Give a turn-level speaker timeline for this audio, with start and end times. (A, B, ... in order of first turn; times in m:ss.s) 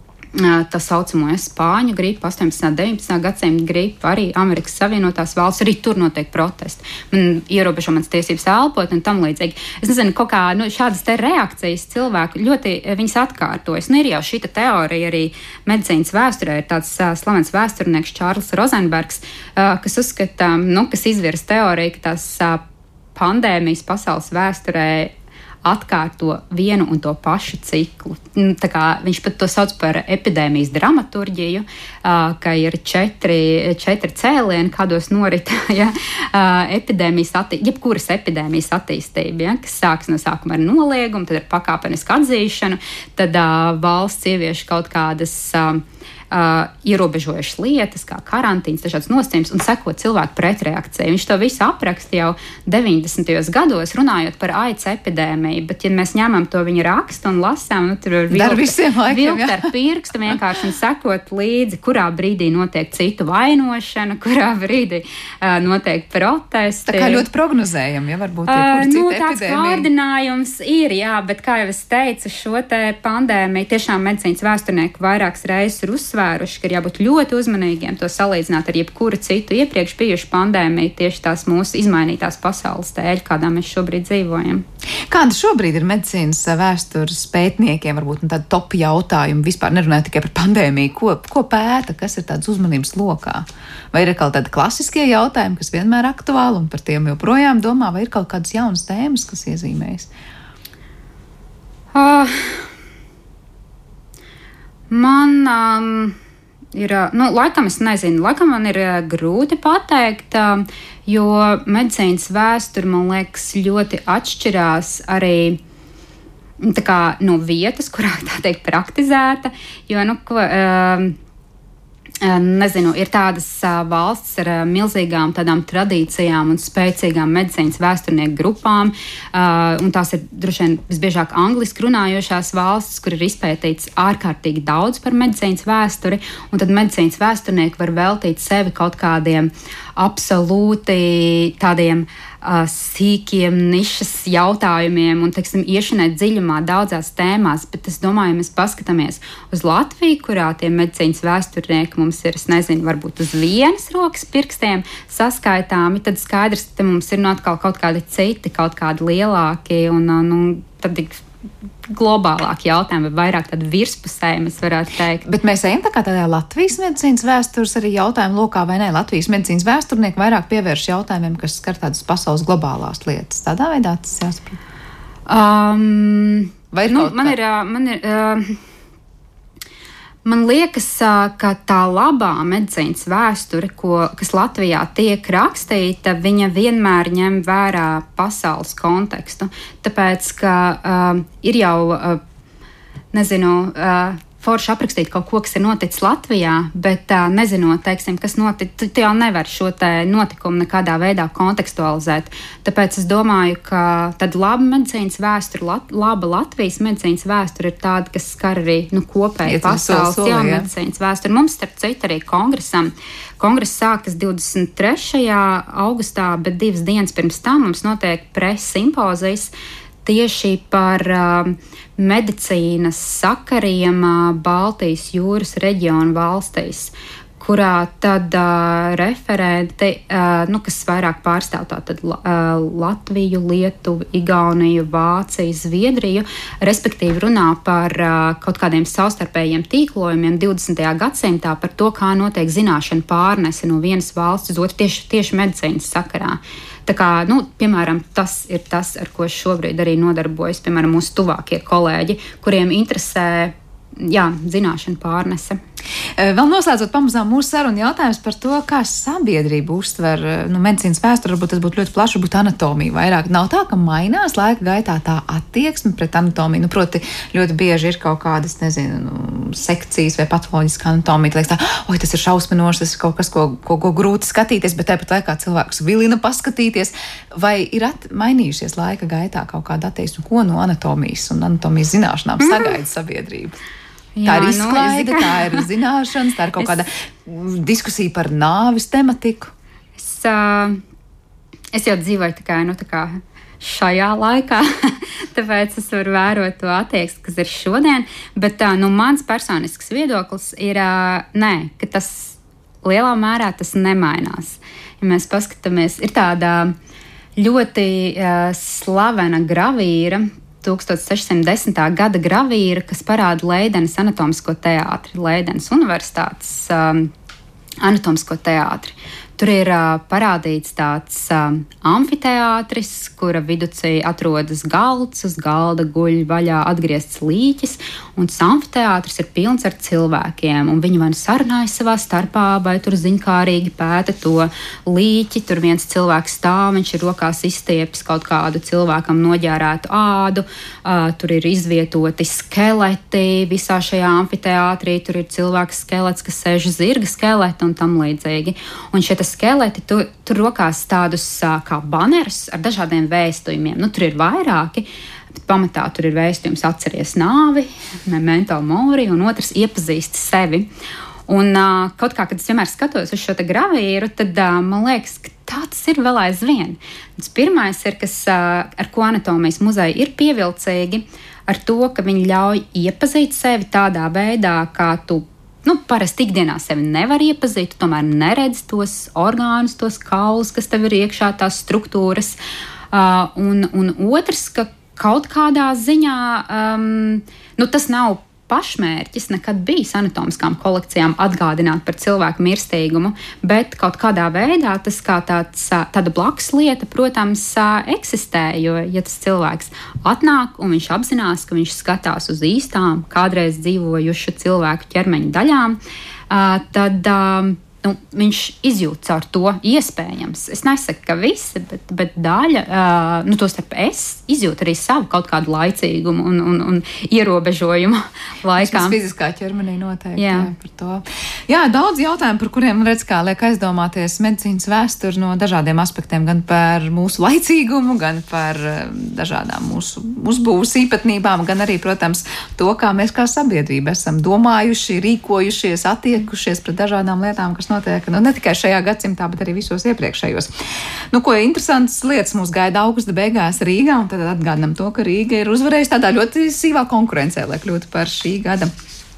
0:00.3-0:22.6 A
0:23.2-0:25.1 A
0:25.6-1:07.3 A
0:58.3-0:59.6 B
1:06.9-1:09.9 B
1:08.5-1:24.6 A
1:25.1-1:40.1 B
1:41.9-1:42.7 A
1:44.9-1:46.2 A
1:46.7-1:55.6 A
1:56.6-2:01.2 A
2:02.2-2:41.2 A
2:41.9-2:45.2 A
2:45.2-2:54.6 B
2:55.3-2:58.6 A
2:56.7-2:57.4 B
3:00.2-3:12.2 A
3:13.1-3:39.5 A
3:29.4-3:30.7 B
3:40.0-4:15.6 A
4:16.2-4:43.6 B
4:42.4-4:42.7 A
4:44.2-4:45.6 A
4:44.3-4:49.5 B
4:50.0-4:50.8 A
4:51.7-5:06.8 A
5:07.4-5:17.1 A
5:17.8-6:00.7 A
6:01.3-6:22.4 A
6:22.9-6:45.8 A
6:46.3-6:59.0 A
6:58.6-7:20.5 B
7:00.2-7:00.5 A
7:21.1-7:28.7 B